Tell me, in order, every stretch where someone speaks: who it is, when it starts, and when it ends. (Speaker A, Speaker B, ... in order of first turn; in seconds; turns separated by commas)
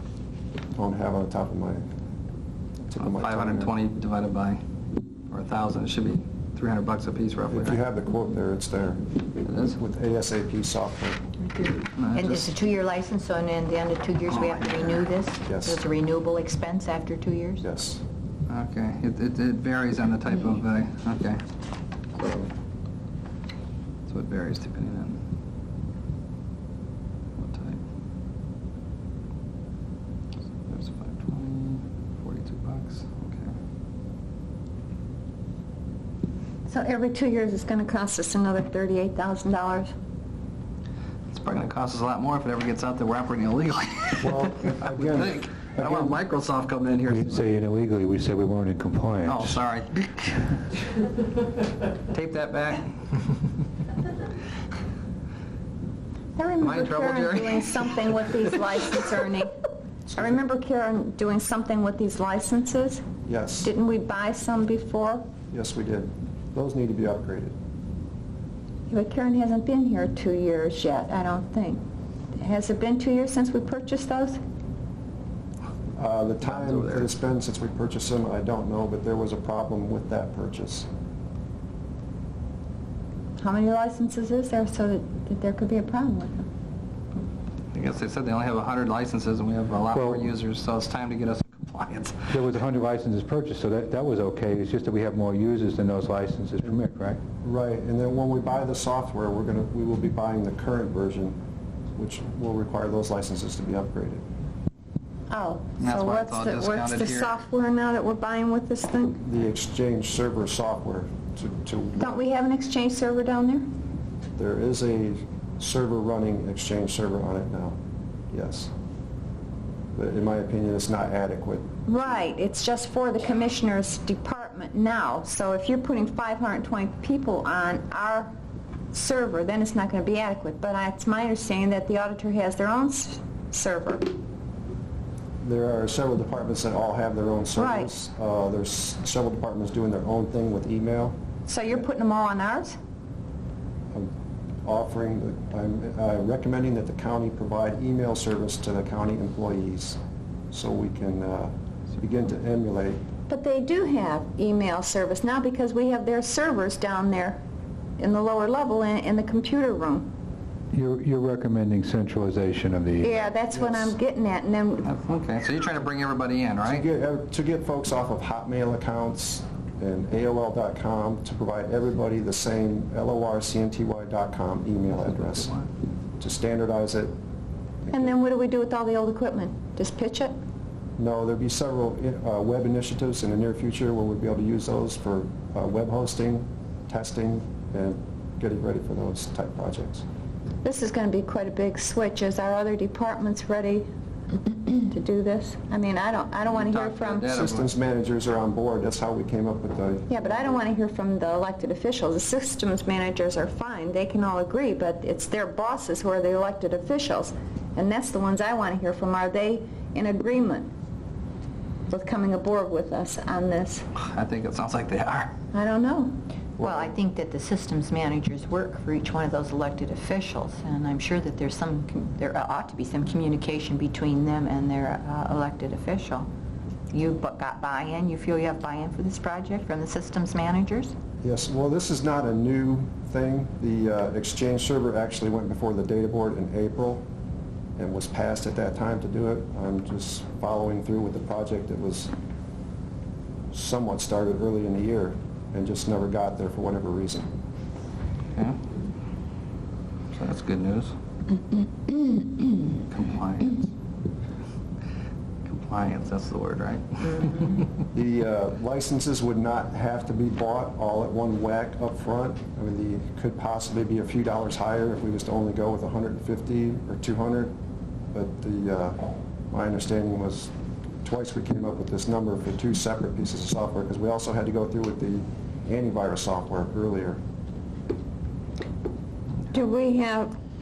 Speaker A: 0.8-1.9, Speaker A: 2.9-3.7, Speaker B: 3.0-4.6, Speaker B: 5.3-7.8, Speaker A: 7.5-9.1, Speaker B: 9.4-9.8, Speaker A: 9.7-11.2, Speaker C: 11.4-17.6, Speaker B: 12.0-12.5, Speaker B: 14.3-15.1, Speaker A: 15.5-15.8, Speaker A: 17.6-18.0, Speaker B: 18.5-21.4, Speaker B: 22.2-22.5, Speaker B: 24.1-25.2, Speaker B: 27.4-27.8, Speaker B: 30.6-33.5, Speaker D: 36.7-39.9, Speaker B: 41.3-47.4, Speaker A: 44.2-46.2, Speaker E: 47.1-49.6, Speaker B: 49.3-50.5, Speaker B: 52.1-53.4, Speaker D: 56.4-59.5, Speaker B: 56.6-58.9, Speaker D: 60.1-63.1, Speaker A: 63.2-63.7, Speaker D: 63.6-65.2, Speaker A: 65.5-67.6, Speaker D: 68.9-71.8, Speaker D: 72.3-74.4, Speaker A: 76.0-80.9, Speaker B: 76.4-77.1, Speaker D: 83.4-86.5, Speaker B: 87.7-92.3, Speaker E: 89.9-90.3, Speaker E: 92.3-97.2, Speaker A: 97.4-101.4, Speaker A: 102.0-104.3, Speaker D: 105.3-109.2, Speaker B: 105.8-107.3, Speaker A: 109.2-112.2, Speaker D: 112.0-113.7, Speaker A: 114.4-117.8, Speaker A: 118.3-118.7, Speaker A: 119.9-121.7, Speaker D: 121.9-128.3, Speaker D: 128.9-134.1, Speaker A: 135.4-141.2, Speaker D: 137.6-137.9, Speaker D: 141.5-142.8, Speaker A: 144.6-150.0, Speaker A: 150.5-153.0, Speaker D: 153.3-157.4, Speaker D: 158.0-160.1, Speaker E: 160.7-163.2, Speaker D: 163.0-164.9, Speaker A: 163.5-164.0, Speaker B: 164.8-166.8, Speaker A: 166.6-175.6, Speaker A: 176.2-177.1, Speaker A: 177.9-178.2, Speaker D: 177.9-180.3, Speaker A: 181.0-190.1, Speaker D: 190.6-193.9, Speaker D: 194.4-197.3, Speaker B: 196.5-197.7, Speaker A: 197.3-200.6, Speaker D: 200.1-210.7, Speaker D: 211.9-213.9, Speaker B: 214.0-215.3, Speaker D: 215.5-216.2, Speaker C: 216.6-226.3, Speaker A: 216.6-216.9, Speaker C: 226.9-230.9, Speaker A: 231.2-237.1, Speaker A: 237.8-242.1, Speaker A: 243.5-247.3, Speaker B: 250.1-250.9, Speaker B: 252.7-253.7, Speaker B: 255.5-257.6, Speaker A: 257.9-267.6, Speaker A: 268.1-270.5, Speaker A: 271.0-277.2, Speaker D: 279.5-280.3